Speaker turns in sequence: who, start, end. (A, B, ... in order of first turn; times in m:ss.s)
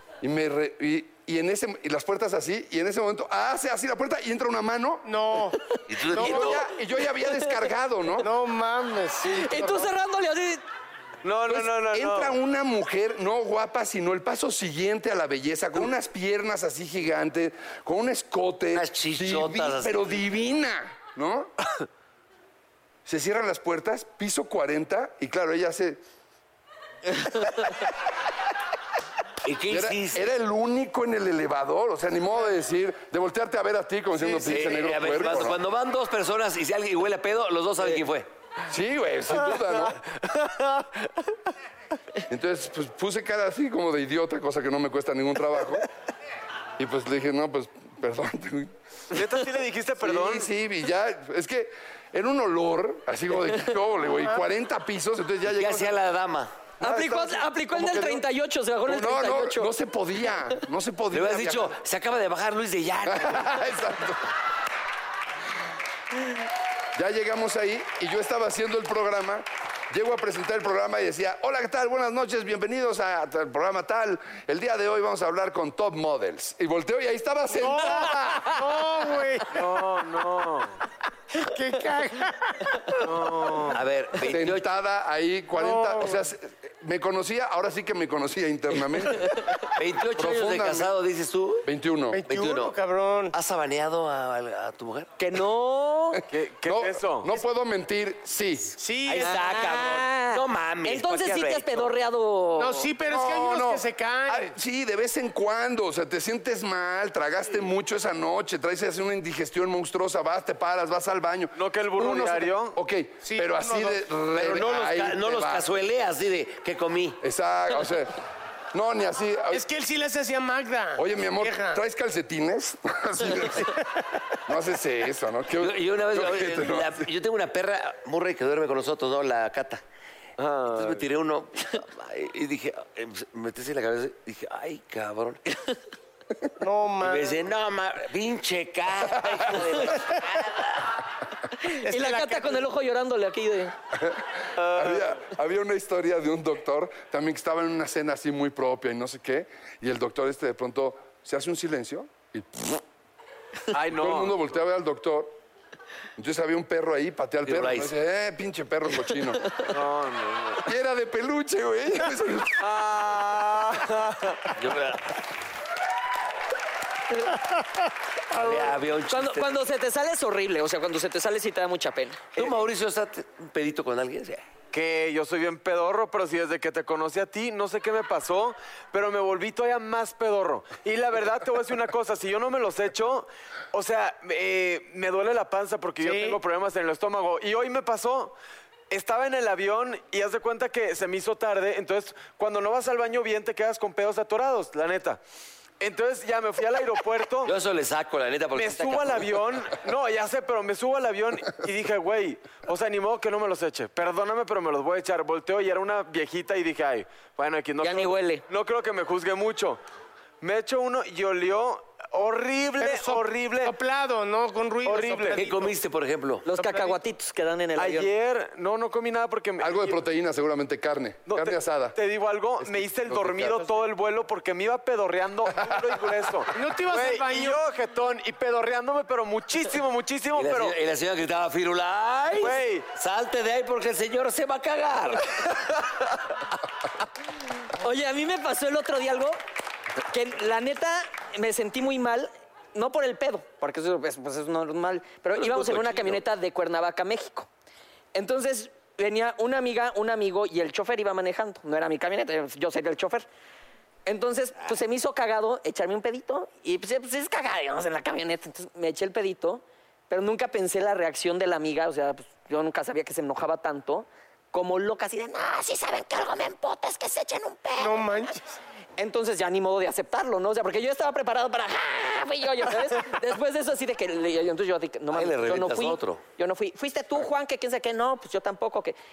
0:00.2-0:05.1 A
0:05.0-0:05.6 B
0:05.9-0:06.6 C
0:06.1-0:06.6 B
0:06.1-0:08.3 A
0:08.2-0:09.9 B
0:09.2-0:10.6 D
0:11.2-0:12.4 E
0:11.5-0:21.5 A
0:18.7-0:20.2 C
0:23.1-0:26.0 A
0:29.4-0:30.3 C
0:29.7-0:35.6 A
0:34.2-0:38.3 C
0:38.7-0:40.0 A
0:40.2-0:40.9 E
0:42.3-0:45.9 A
0:46.8-0:48.7 A
0:49.1-0:50.5 E
0:50.0-0:55.9 A
0:55.5-0:56.5 C
0:56.8-0:58.2 A
0:56.8-0:59.7 D
0:58.9-1:01.8 A
1:01.1-1:03.6 C
1:03.0-1:04.3 A
1:07.0-1:18.7 A
1:17.5-1:19.8 B
1:19.5-1:20.8 E
1:21.3-1:23.7 B
1:23.0-1:23.8 E
1:23.7-1:24.7 C
1:24.3-1:29.5 A
1:25.5-1:26.3 B
1:29.8-1:31.7 C
1:30.0-1:30.9 A
1:31.6-1:32.2 A
1:32.1-1:33.3 B
1:32.3-1:32.8 C
1:33.3-1:35.1 C
1:35.2-1:36.2 D
1:36.1-1:38.8 A
1:36.3-1:37.3 E
1:38.8-1:39.6 B
1:39.1-1:41.9 C
1:39.2-1:42.9 D
1:42.6-1:44.5 B
1:43.1-1:55.7 A
1:51.6-1:52.8 E
1:53.2-1:54.0 B
1:54.4-1:57.2 C
1:57.2-1:58.2 A
1:58.7-1:59.6 A
1:59.5-2:01.8 B
2:01.0-2:03.8 A
2:04.5-2:07.1 A
2:05.6-2:09.8 C
2:10.4-2:11.0 E
2:10.7-2:15.4 C
2:16.6-2:17.4 B
2:17.0-2:20.9 C
2:19.3-2:19.6 A
2:21.6-2:23.8 D
2:21.8-2:22.7 B
2:23.9-2:32.8 A
2:24.6-2:25.2 E
2:33.7-2:34.4 E
2:33.9-2:35.4 A
2:36.2-2:39.6 A
2:37.4-2:37.9 C
2:39.7-2:40.7 E
2:40.6-2:42.7 A
2:42.6-2:44.5 E
2:44.6-2:45.2 C
2:48.3-2:49.6 C
2:49.1-2:52.4 D
2:52.4-2:54.4 C
2:54.7-3:08.4 E
3:06.0-3:06.4 B
3:08.9-3:15.2 E
3:15.8-3:17.5 E
3:17.4-3:19.3 C
3:18.6-3:29.8 E
3:27.8-3:28.4 D
3:30.4-3:33.7 E
3:32.8-3:35.7 B
3:34.8-3:35.4 E
3:35.4-3:36.5 C
3:36.4-3:38.1 D
3:36.6-3:37.0 B
3:37.8-3:40.0 E
3:39.6-3:42.0 A
3:41.3-3:50.8 E
3:42.6-3:43.6 A
3:46.5-3:47.6 B
3:50.4-3:55.6 C
3:52.4-3:52.9 E
3:57.8-3:59.4 D
4:00.1-4:07.5 D
4:05.4-4:06.2 C
4:08.2-4:13.3 D
4:14.1-4:28.0 D
4:27.8-4:28.6 B
4:29.0-4:39.0 D
4:35.1-4:36.2 C